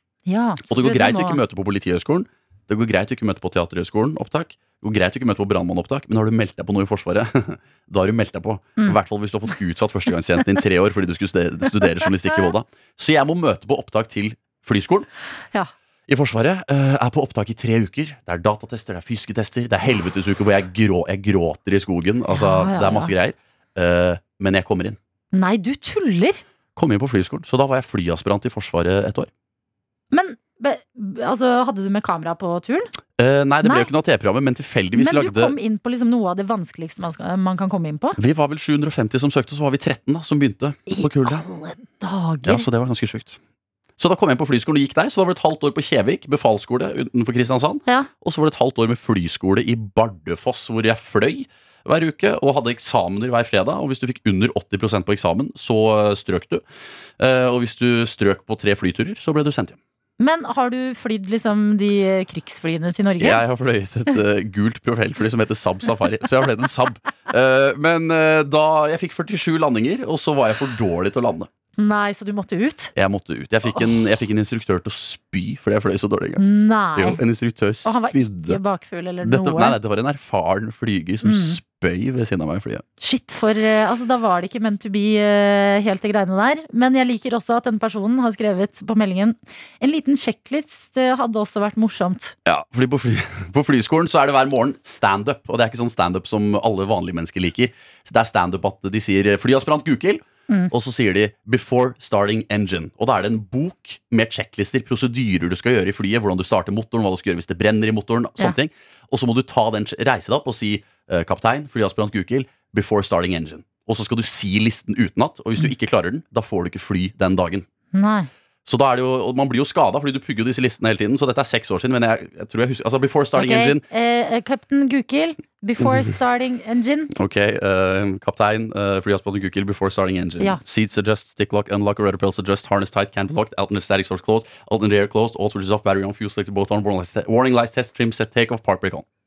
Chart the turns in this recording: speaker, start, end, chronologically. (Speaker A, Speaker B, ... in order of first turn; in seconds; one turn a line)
Speaker A: 0.3-1.4
Speaker B: 0.7-15.1
Speaker B: 16.1-25.0
Speaker A: 22.3-23.1
Speaker A: 25.3-26.4
Speaker B: 26.8-29.3
Speaker A: 30.1-32.9
Speaker B: 33.2-35.5
Speaker A: 33.6-33.9
Speaker A: 34.9-38.2
Speaker B: 38.2-41.4
Speaker A: 40.9-42.6
Speaker B: 42.4-43.4
Speaker B: 44.0-56.6
Speaker B: 57.2-59.8
Speaker A: 60.2-63.4
Speaker B: 63.2-71.5
Speaker A: 71.8-72.9
Speaker B: 73.0-76.4
Speaker A: 76.4-77.2
Speaker B: 77.0-78.6
Speaker A: 77.8-79.8
Speaker B: 79.2-82.8
Speaker A: 81.2-81.6
Speaker A: 83.0-92.3
Speaker B: 92.5-117.7
Speaker A: 117.9-118.3
Speaker B: 118.7-123.8
Speaker A: 123.3-127.1
Speaker B: 127.1-139.0